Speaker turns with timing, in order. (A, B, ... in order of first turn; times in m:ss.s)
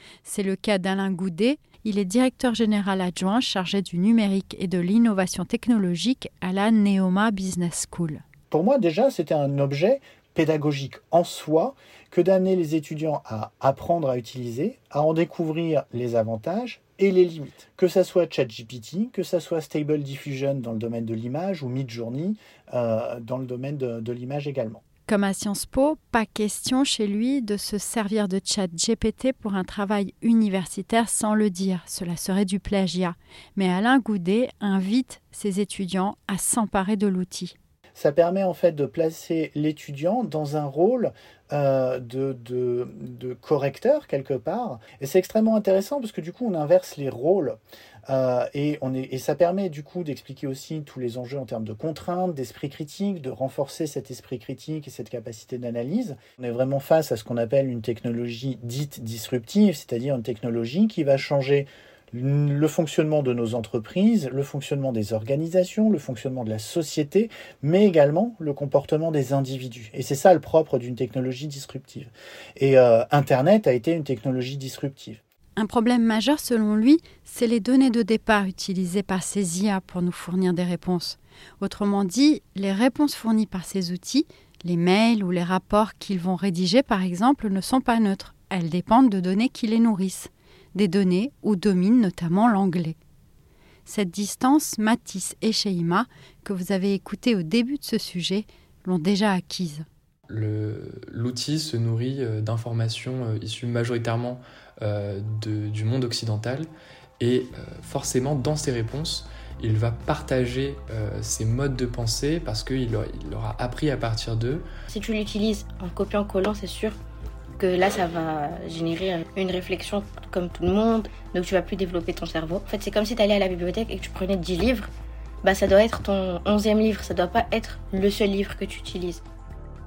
0:00.2-0:08.2 A
0:08.5-0:24.8 B
0:25.1-0:37.5 A
0:38.0-1:15.2 B
1:15.6-1:33.0 A
1:33.8-1:39.8 A
1:40.3-1:54.6 C
1:54.9-1:57.0 D
1:57.6-2:04.9 D
2:05.4-2:09.2 D